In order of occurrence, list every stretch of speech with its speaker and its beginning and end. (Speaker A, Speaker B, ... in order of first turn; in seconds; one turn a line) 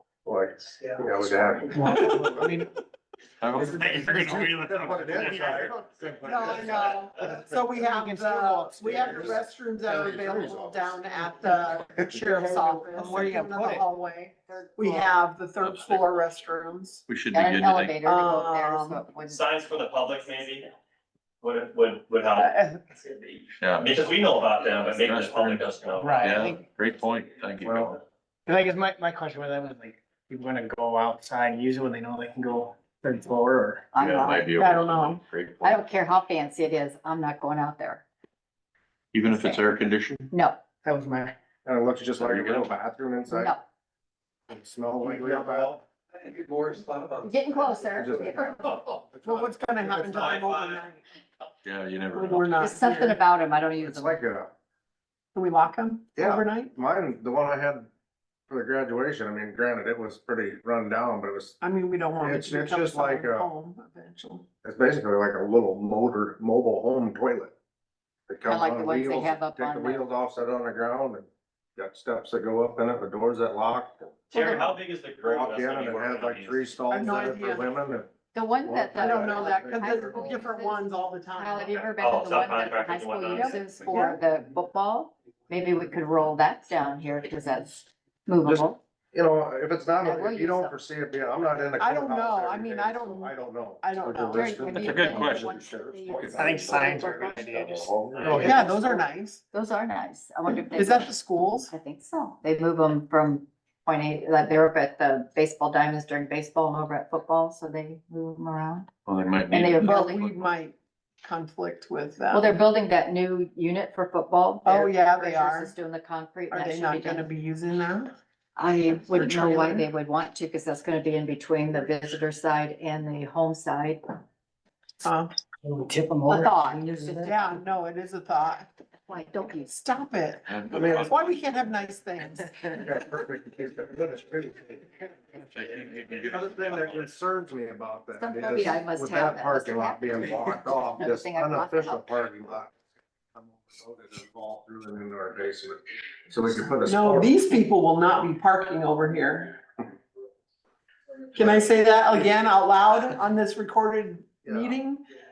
Speaker A: 0.2-2.6
Speaker B: 1.7-2.7
Speaker C: 3.4-4.5
Speaker A: 3.6-7.0
Speaker D: 6.2-17.1
Speaker B: 7.8-9.4
Speaker A: 9.1-9.3
Speaker A: 9.9-11.3
Speaker A: 11.8-13.1
Speaker B: 12.9-13.8
Speaker C: 15.6-16.1
Speaker C: 17.1-18.0
Speaker E: 17.3-19.5
Speaker D: 18.0-19.0
Speaker F: 19.3-20.7
Speaker F: 21.4-26.6
Speaker B: 22.4-22.8
Speaker C: 23.6-23.9
Speaker C: 24.9-25.7
Speaker B: 26.0-26.6
Speaker C: 26.2-28.0
Speaker A: 27.6-27.9
Speaker B: 28.5-33.9
Speaker E: 33.9-35.0
Speaker C: 34.0-35.8
Speaker D: 34.6-35.2
Speaker E: 35.6-38.0
Speaker C: 39.1-40.2
Speaker E: 39.2-39.7
Speaker E: 40.3-40.6
Speaker B: 40.8-41.3
Speaker A: 41.6-43.5
Speaker C: 42.2-42.7
Speaker E: 43.3-43.6
Speaker A: 44.5-45.8
Speaker F: 45.2-45.6
Speaker F: 46.2-47.3
Speaker E: 47.2-48.9
Speaker A: 47.9-48.4
Speaker A: 49.1-50.4
Speaker D: 49.2-51.0
Speaker F: 50.0-50.8
Speaker C: 51.6-52.6
Speaker D: 52.1-53.2
Speaker E: 52.6-54.2
Speaker A: 53.8-54.5
Speaker D: 55.3-56.7
Speaker A: 56.2-57.9
Speaker A: 58.5-61.6
Speaker D: 61.6-64.5
Speaker A: 62.2-63.5
Speaker A: 64.6-67.5
Speaker A: 68.3-74.1
Speaker E: 68.5-70.1
Speaker D: 74.3-74.8
Speaker F: 74.3-76.7
Speaker A: 75.2-80.3
Speaker D: 76.9-77.7
Speaker E: 78.3-88.8
Speaker D: 79.0-81.9
Speaker F: 82.0-83.6
Speaker D: 83.3-84.2
Speaker A: 88.4-95.2
Speaker E: 90.0-90.8
Speaker D: 91.8-95.6
Speaker E: 94.3-97.7
Speaker C: 94.7-98.5
Speaker A: 96.0-97.2
Speaker B: 96.3-98.6
Speaker A: 98.2-98.5
Speaker E: 98.2-108.9
Speaker D: 98.3-99.4
Speaker D: 100.5-101.7
Speaker C: 109.1-110.5
Speaker E: 109.5-110.2
Speaker D: 109.8-112.5
Speaker E: 112.3-117.3
Speaker D: 114.6-115.7
Speaker D: 116.5-118.1
Speaker E: 118.6-124.0
Speaker D: 119.1-119.8
Speaker D: 125.0-125.3
Speaker B: 125.6-127.3
Speaker E: 126.3-127.6
Speaker D: 127.2-128.7
Speaker E: 129.1-129.8
Speaker D: 129.7-132.8
Speaker C: 130.5-131.2
Speaker A: 130.7-131.1
Speaker A: 132.8-135.0
Speaker C: 135.5-137.0
Speaker A: 136.2-142.7
Speaker E: 138.1-142.1
Speaker A: 143.3-147.3
Speaker D: 146.8-149.6
Speaker D: 151.3-155.0
Speaker A: 151.4-151.7
Speaker A: 154.4-154.8